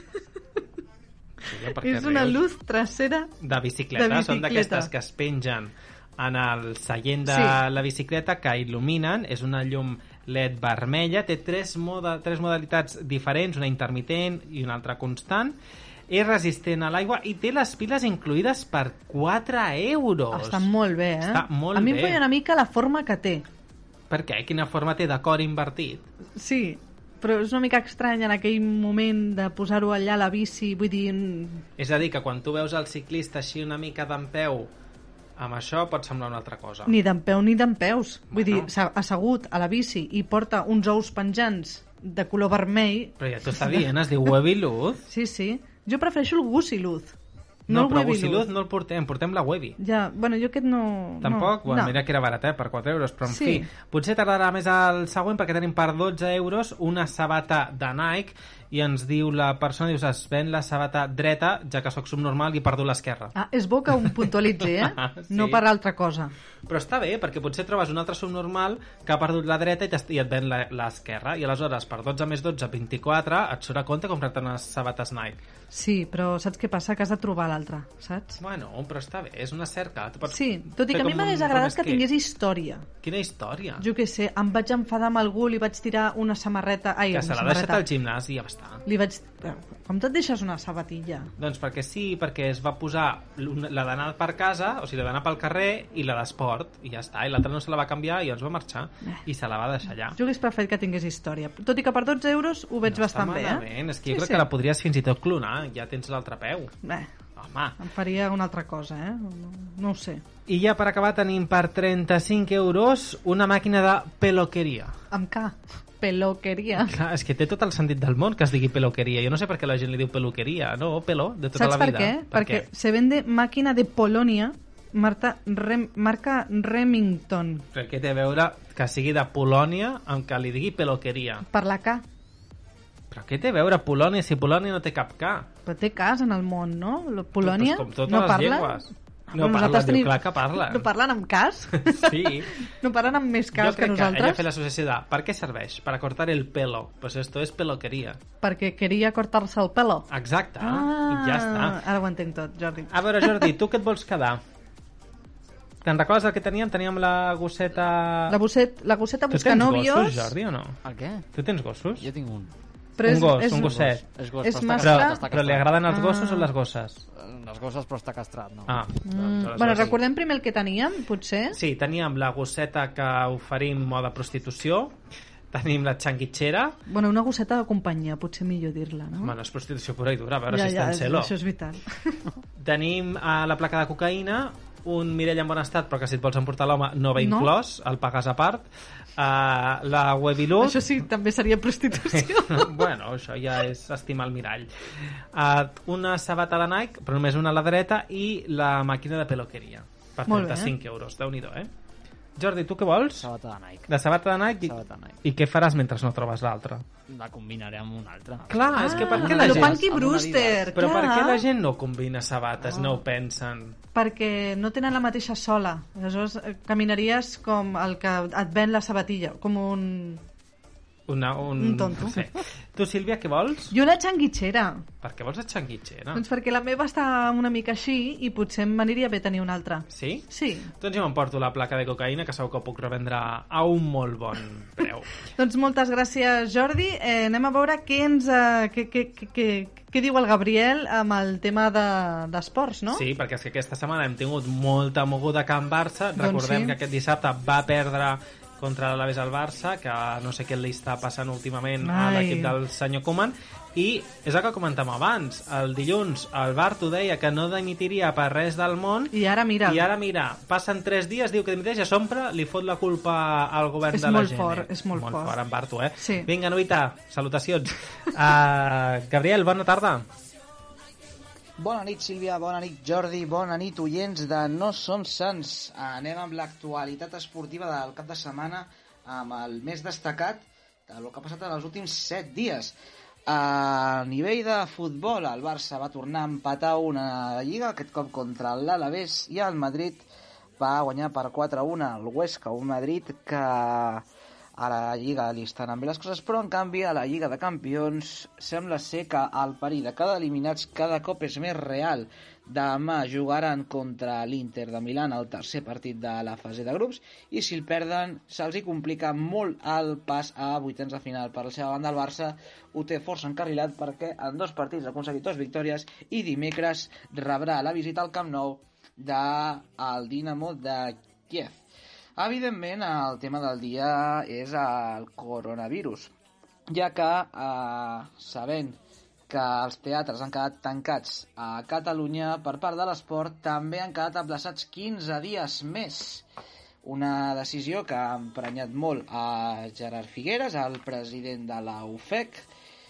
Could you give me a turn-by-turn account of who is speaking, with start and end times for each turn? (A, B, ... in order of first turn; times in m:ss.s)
0:01.4-0:02.4 A
0:01.8-0:03.3 B
0:03.4-0:15.6 A
0:03.9-0:04.9 B
0:07.3-0:07.6 B
0:16.1-0:20.7 A
0:20.3-0:23.4 B
0:21.2-0:22.2 A
0:24.1-0:26.0 A
0:26.4-0:31.6 B
0:31.8-0:34.7 A
0:35.4-0:37.0 A
0:36.8-0:43.9 B
0:38.3-0:38.7 A
0:43.2-0:45.0 A
0:45.1-0:47.1 B
0:47.7-0:48.4 B
0:47.7-0:49.8 A
0:49.8-0:52.0 B
0:51.2-1:03.3 A
0:53.3-0:53.7 B
1:03.3-1:06.3 B
1:04.0-1:05.6 A
1:06.7-1:15.4 A
1:15.7-1:18.4 B
1:18.4-1:22.0 A
1:20.3-1:22.8 B
1:23.0-1:23.8 A
1:23.8-1:27.8 B
1:27.1-1:28.8 A
1:28.8-1:31.3 B
1:31.4-1:40.2 A
1:40.1-1:44.4 B
1:42.9-1:46.7 A
1:46.8-1:47.1 B
1:47.4-1:47.8 A
1:47.8-1:50.2 B
1:50.5-1:55.0 A
1:55.1-1:56.9 B
1:56.8-2:02.6 A
2:01.5-2:07.6 B
2:07.7-2:11.4 A
2:11.5-2:12.0 B
2:13.1-2:15.5 A
2:15.6-2:24.4 B
2:17.4-2:20.9 A
2:21.8-2:22.6 A
2:23.5-2:28.2 A
2:28.4-2:30.1 B
2:30.1-2:31.8 A
2:30.6-2:33.5 B
2:32.9-2:34.4 A
2:35.8-2:38.4 A
2:38.3-2:40.3 B
2:39.3-2:40.8 A
2:40.8-2:41.2 C
2:41.3-2:42.1 A
2:42.0-2:42.5 C
2:43.0-2:43.8 B
2:43.0-2:44.0 A
2:43.6-2:45.8 C
2:44.4-2:45.2 B
2:44.8-2:47.0 A
2:45.9-2:46.5 B
2:47.1-2:48.9 C
2:48.7-2:50.0 A
2:49.0-2:51.6 B
2:49.7-2:49.9 C
2:51.5-2:54.9 A
2:55.5-2:56.8 A
2:56.9-2:59.3 B
2:59.2-3:01.3 A
3:00.5-3:02.2 B
3:02.6-3:08.6 A
3:07.2-3:07.5 B
3:09.2-3:10.8 A
3:10.6-3:12.8 B
3:12.0-3:21.7 A
3:20.3-3:20.7 B
3:22.4-3:23.3 A
3:23.2-3:23.9 C
3:23.9-3:26.8 A
3:24.6-3:25.2 C
3:27.1-3:30.8 C
3:28.5-3:29.8 A
3:28.8-3:31.4 B
3:30.8-3:33.8 A
3:33.9-3:40.2 B
3:41.1-3:43.7 A
3:41.6-3:42.2 B
3:43.7-3:44.8 B
3:45.0-3:46.2 A
3:46.1-3:50.7 B
3:49.9-3:55.1 A
3:55.4-4:03.0 B
4:02.9-4:19.1 A
4:06.2-4:06.8 B
4:11.8-4:12.5 B
4:19.1-4:19.8 B
4:19.6-4:30.0 A
4:23.9-4:25.3 B
4:26.0-4:26.3 B
4:31.6-4:42.7 D
4:43.3-4:50.0 D
4:50.6-5:21.6 D
5:22.2-5:26.1 D
5:26.7-5:36.2 D
5:36.8-5:42.5 D